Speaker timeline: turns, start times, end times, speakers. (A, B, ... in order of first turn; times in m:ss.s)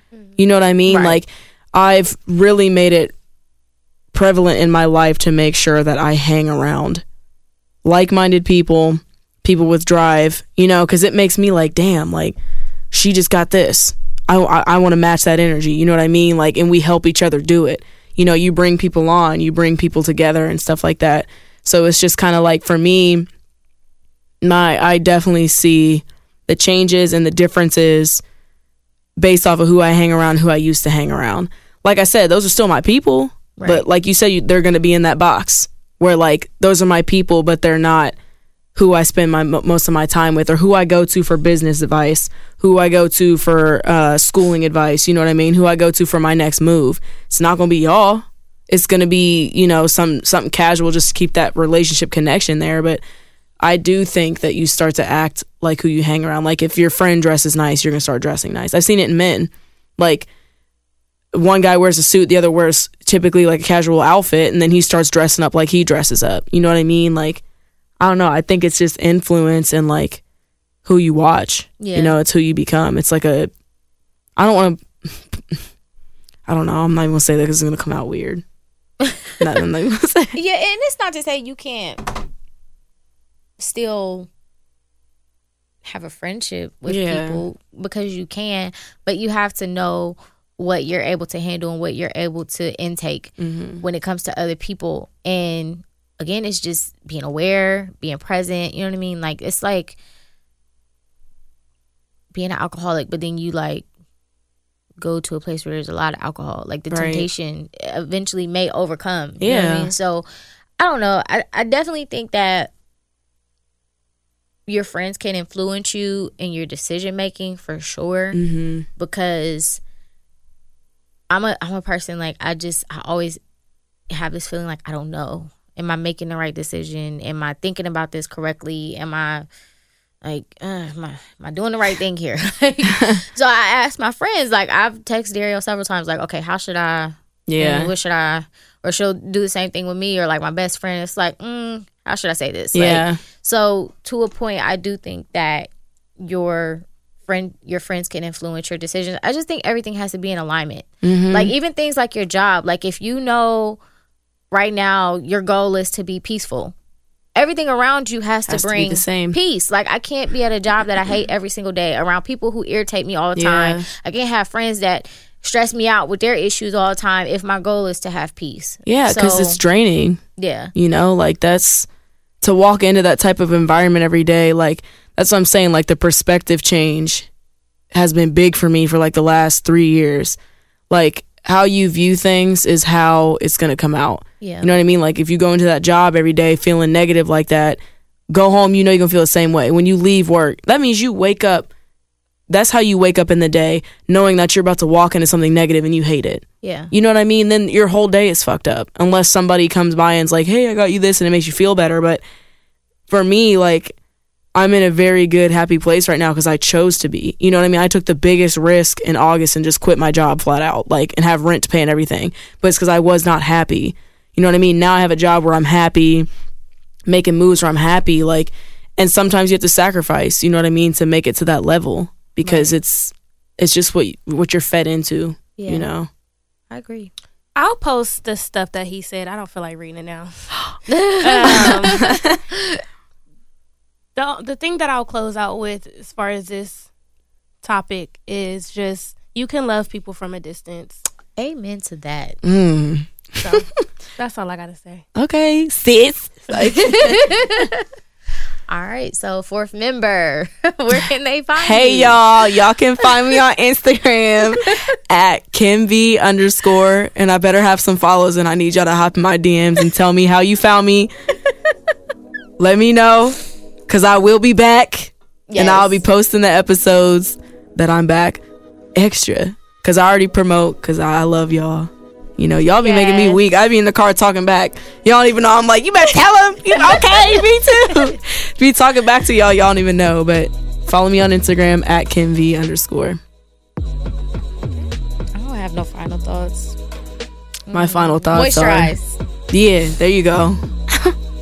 0:00.4-0:03.1 A
0:00.9-0:01.2 B
0:04.1-0:07.0 A
0:07.8-0:12.4 A
0:12.9-0:23.3 A
0:24.4-0:28.2 A
0:29.2-0:38.2 A
0:33.6-0:33.8 B
0:38.7-0:53.0 A
0:53.6-1:00.3 A
1:01.3-1:07.4 A
1:08.0-1:10.2 A
1:10.8-1:13.5 A
1:11.8-1:12.1 B
1:14.4-1:15.6 A
1:16.5-1:18.4 A
1:19.4-1:20.3 A
1:20.3-1:22.1 B
1:23.6-1:24.3 B
1:25.8-1:40.0 B
1:26.9-1:27.4 A
1:33.4-1:33.8 A
1:42.3-1:43.8 B
1:45.0-1:50.2 B
1:46.9-1:47.3 A
1:49.4-1:49.9 A
1:50.8-1:52.7 B
1:54.7-1:58.4 B
1:58.3-1:58.9 A
1:59.0-1:59.8 B
2:01.3-2:03.4 B
2:04.1-2:09.5 B
2:10.2-2:33.8 B
2:12.9-2:13.2 A
2:17.5-2:17.9 A
2:22.7-2:23.2 A
2:31.0-2:31.5 A
2:34.5-2:36.7 B
2:37.4-2:49.6 B
2:38.5-2:39.4 A
2:43.4-2:43.9 A
2:48.8-2:50.2 A
2:50.4-2:50.7 B
2:50.7-2:51.9 A
2:52.4-2:57.3 A
2:57.9-3:00.4 A
3:00.9-3:07.8 A
3:04.4-3:04.7 B
3:08.3-3:11.7 A
3:12.5-3:22.2 A
3:16.6-3:16.9 B
3:23.1-3:24.0 A
3:24.5-3:36.3 A
3:37.1-3:46.1 A
3:42.4-3:42.7 B
3:45.6-3:45.9 B
3:46.7-3:47.1 B
3:47.6-3:50.6 C
3:50.9-3:52.8 B
3:51.2-3:52.1 C
3:51.4-3:52.4 A
3:54.2-3:56.9 C
3:57.6-4:01.0 C
4:01.4-4:02.4 B
4:02.4-4:03.8 A
4:03.4-4:05.0 C
4:05.1-4:07.3 A
4:06.6-4:07.8 B
4:08.7-4:12.2 B
4:11.6-4:21.1 A
4:22.6-4:28.4 A
4:25.5-4:26.0 B
4:29.0-4:43.2 A
4:32.8-4:33.4 B
4:36.9-4:37.2 B
4:45.3-4:46.8 B
4:47.7-4:49.2 B
4:47.7-4:49.0 A
4:49.5-4:51.1 A